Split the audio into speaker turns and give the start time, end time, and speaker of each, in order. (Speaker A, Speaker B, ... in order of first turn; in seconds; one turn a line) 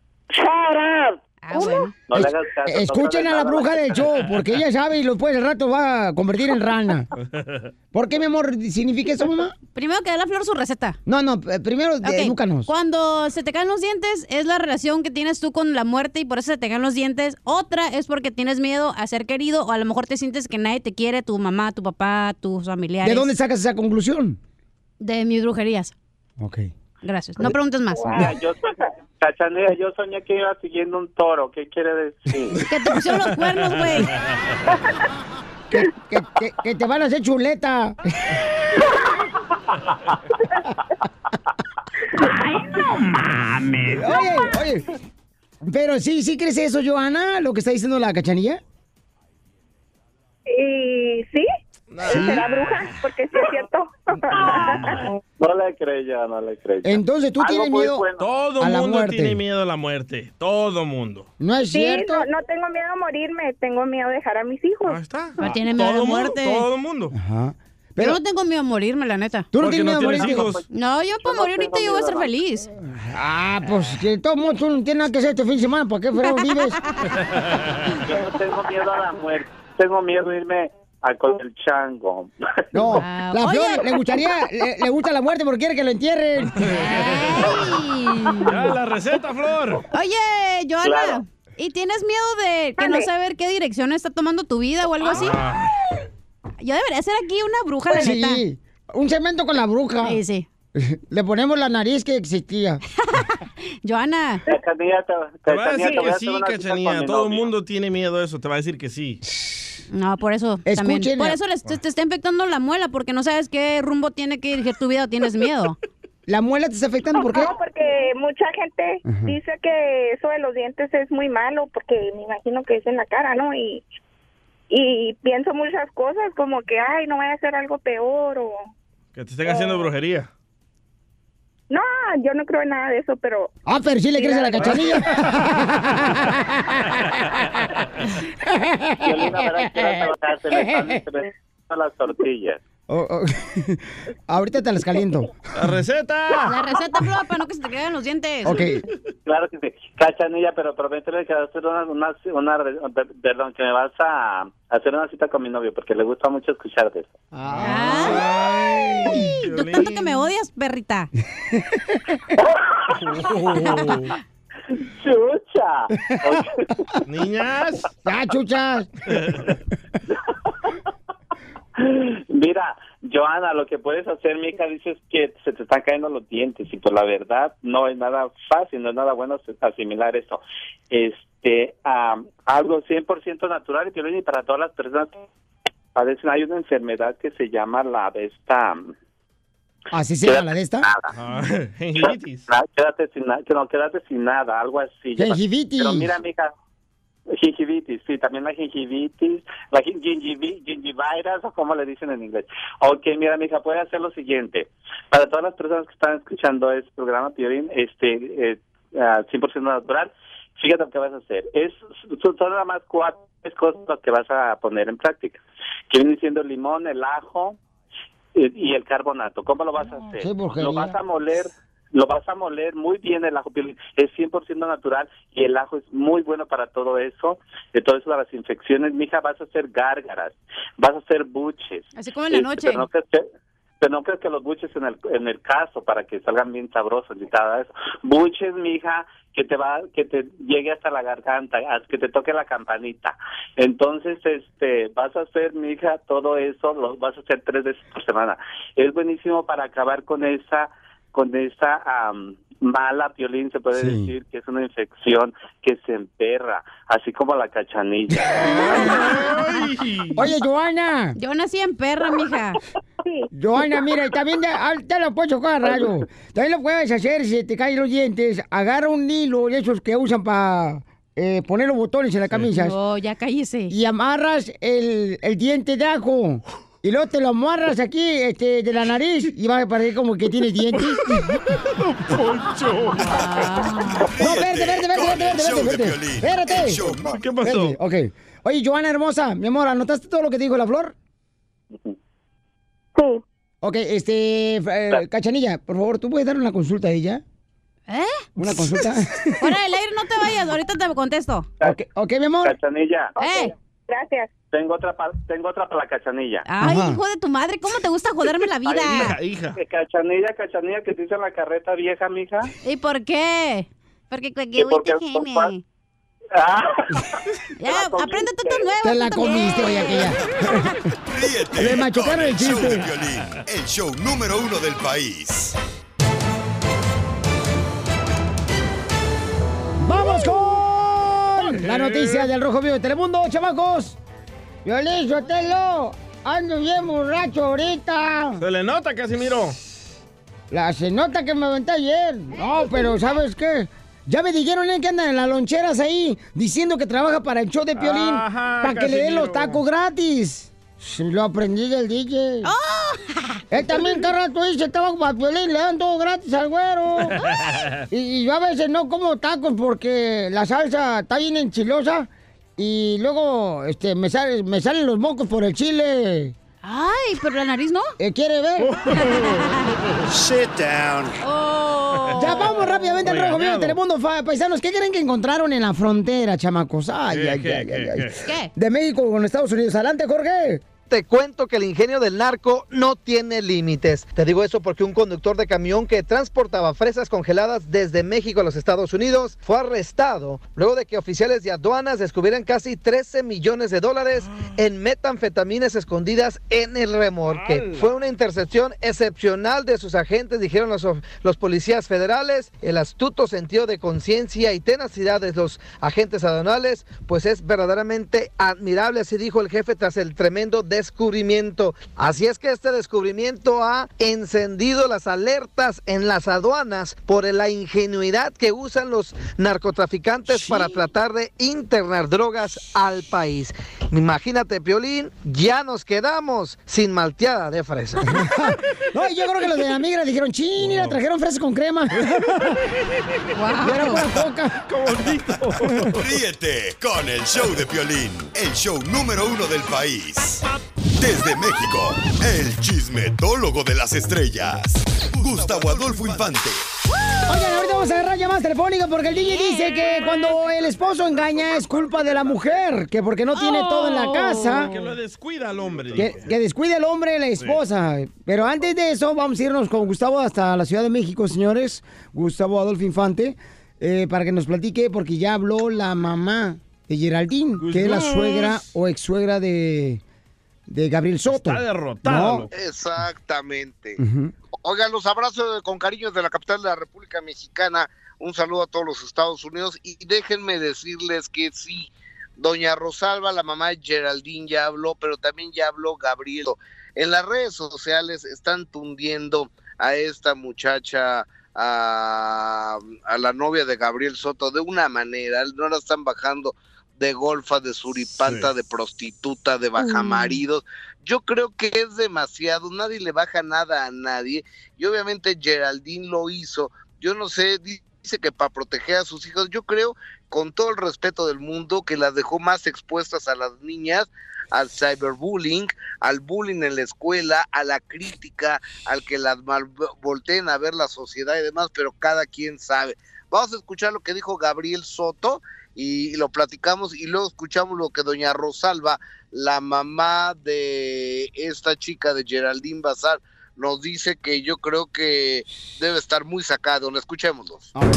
Speaker A: 0.4-1.9
Speaker B: 1.4-2.0
Speaker C: 2.1-3.8
Speaker D: 2.1-7.1
Speaker E: 7.2-7.7
Speaker D: 7.9-9.6
Speaker B: 9.7-11.0
Speaker D: 11.1-12.7
Speaker B: 12.0-23.3
Speaker D: 23.0-24.4
Speaker B: 25.0-25.9
Speaker D: 26.4-26.7
Speaker B: 27.0-28.3
Speaker A: 27.9-28.3
Speaker C: 28.2-28.6
Speaker C: 29.2-32.5
Speaker E: 32.6-34.1
Speaker B: 32.6-34.2
Speaker D: 35.7-38.4
Speaker D: 43.9-44.9
Speaker D: 45.6-48.6
Speaker A: 50.5-51.5
Speaker E: 51.9-52.8
Speaker A: 52.0-55.0
Speaker D: 52.1-52.4
Speaker C: 55.4-58.2
Speaker D: 56.8-58.1
Speaker E: 58.2-61.3
Speaker D: 58.6-59.4
Speaker D: 61.4-62.2
Speaker A: 61.7-65.0
Speaker E: 64.9-67.1
Speaker B: 65.4-66.7
Speaker D: 67.1-68.2
Speaker B: 68.0-69.5
Speaker D: 69.5-70.6
Speaker E: 69.6-70.6
Speaker C: 70.3-70.6
Speaker B: 70.7-72.7
Speaker C: 71.2-72.3
Speaker D: 72.9-76.8
Speaker B: 76.2-77.1
Speaker E: 77.4-77.8
Speaker C: 78.1-82.8
Speaker D: 82.7-86.7
Speaker B: 83.0-84.2
Speaker E: 86.6-87.6
Speaker B: 86.7-88.7
Speaker E: 88.5-89.8
Speaker B: 89.9-95.5
Speaker C: 90.8-91.2
Speaker A: 92.8-93.1
Speaker E: 95.1-95.7
Speaker B: 96.6-98.4
Speaker D: 97.9-100.2
Speaker B: 100.0-100.5
Speaker D: 100.8-102.8
Speaker B: 103.1-104.4
Speaker C: 104.5-107.5
Speaker E: 105.5-109.2
Speaker D: 109.3-109.6
Speaker B: 109.9-115.8
Speaker D: 110.7-111.4
Speaker D: 116.3-117.5
Speaker A: 117.2-123.8
Speaker D: 119.0-119.3
Speaker A: 124.7-128.7
Speaker E: 129.2-130.3
Speaker A: 129.5-129.8
Speaker A: 131.7-133.5
Speaker D: 133.7-137.4
Speaker A: 134.2-134.7
Speaker E: 134.6-134.9
Speaker D: 138.4-140.0
Speaker C: 139.0-142.6
Speaker D: 140.5-140.9
Speaker D: 142.9-145.3
Speaker E: 145.6-146.6
Speaker B: 146.5-148.7
Speaker D: 148.4-148.8
Speaker C: 149.2-157.1
Speaker D: 157.3-159.3
Speaker E: 157.5-160.3
Speaker B: 157.6-158.2
Speaker B: 159.1-161.1
Speaker D: 161.5-162.2
Speaker E: 163.0-164.1
Speaker B: 163.5-164.0
Speaker C: 164.9-166.5
Speaker D: 166.0-166.4
Speaker E: 167.1-167.8
Speaker D: 168.0-168.9
Speaker E: 169.2-169.5
Speaker C: 171.8-185.3
Speaker C: 185.9-188.9
Speaker D: 189.9-190.9
Speaker C: 190.2-191.1
Speaker E: 191.2-192.5
Speaker C: 192.0-196.5
Speaker D: 195.2-196.1
Speaker C: 197.3-217.6
Speaker C: 218.3-233.3
Speaker D: 220.2-221.0
Speaker B: 231.9-232.9
Speaker C: 233.8-258.5
Speaker D: 253.7-254.1
Speaker E: 258.4-260.2
Speaker B: 258.6-259.3
Speaker D: 260.2-261.2
Speaker B: 261.2-262.6
Speaker D: 263.3-272.8
Speaker B: 272.5-273.7
Speaker D: 273.7-281.4
Speaker E: 281.5-283.6
Speaker B: 283.0-284.1
Speaker F: 284.1-287.2
Speaker D: 284.2-286.9
Speaker E: 286.9-287.8
Speaker D: 287.4-290.9
Speaker A: 293.0-293.2
Speaker D: 293.6-297.2
Speaker B: 297.9-298.9
Speaker D: 298.4-299.5
Speaker B: 299.4-301.5
Speaker D: 301.6-302.6
Speaker C: 302.4-303.2
Speaker B: 303.2-303.5
Speaker A: 303.2-304.3
Speaker C: 304.5-306.5
Speaker B: 306.5-309.2
Speaker D: 306.6-307.0
Speaker E: 308.7-309.6
Speaker C: 309.6-312.5
Speaker B: 312.6-315.6
Speaker C: 314.6-315.5
Speaker C: 316.4-317.1
Speaker B: 317.6-320.2
Speaker C: 317.6-318.6
Speaker D: 318.8-320.8
Speaker F: 321.1-325.6
Speaker D: 321.6-322.9
Speaker D: 329.8-334.0
Speaker E: 331.5-332.3
Speaker D: 334.6-338.4
Speaker E: 338.4-339.6
Speaker D: 340.5-352.5
Speaker E: 347.8-349.6
Speaker B: 352.4-353.4
Speaker D: 353.5-357.2
Speaker E: 357.3-357.8
Speaker D: 357.9-366.4
Speaker B: 366.6-367.9
Speaker D: 368.0-368.7
Speaker E: 368.6-370.1
Speaker B: 368.9-369.7
Speaker B: 371.2-372.8
Speaker E: 372.1-372.5
Speaker D: 372.2-380.6
Speaker E: 373.0-373.8
Speaker E: 377.1-378.2
Speaker B: 378.2-378.5
Speaker G: 380.9-428.0
Speaker E: 394.2-394.5
Speaker E: 397.3-397.9
Speaker D: 428.1-432.5
Speaker E: 430.6-431.0
Speaker E: 432.0-432.6
Speaker B: 433.4-434.0
Speaker D: 433.6-434.6
Speaker E: 434.7-436.1
Speaker F: 436.0-440.4
Speaker F: 441.0-446.7
Speaker E: 445.4-445.9
Speaker B: 447.0-447.9
Speaker D: 447.3-454.7
Speaker B: 449.1-450.3
Speaker E: 450.0-452.6
Speaker B: 453.3-454.9
Speaker E: 454.6-456.3
Speaker D: 456.0-470.0
Speaker E: 467.6-468.7
Speaker D: 470.7-472.5
Speaker E: 471.3-472.5
Speaker H: 472.5-474.0
Speaker D: 474.0-474.3
Speaker H: 474.6-537.7
Speaker E: 498.2-498.5
Speaker B: 499.8-500.4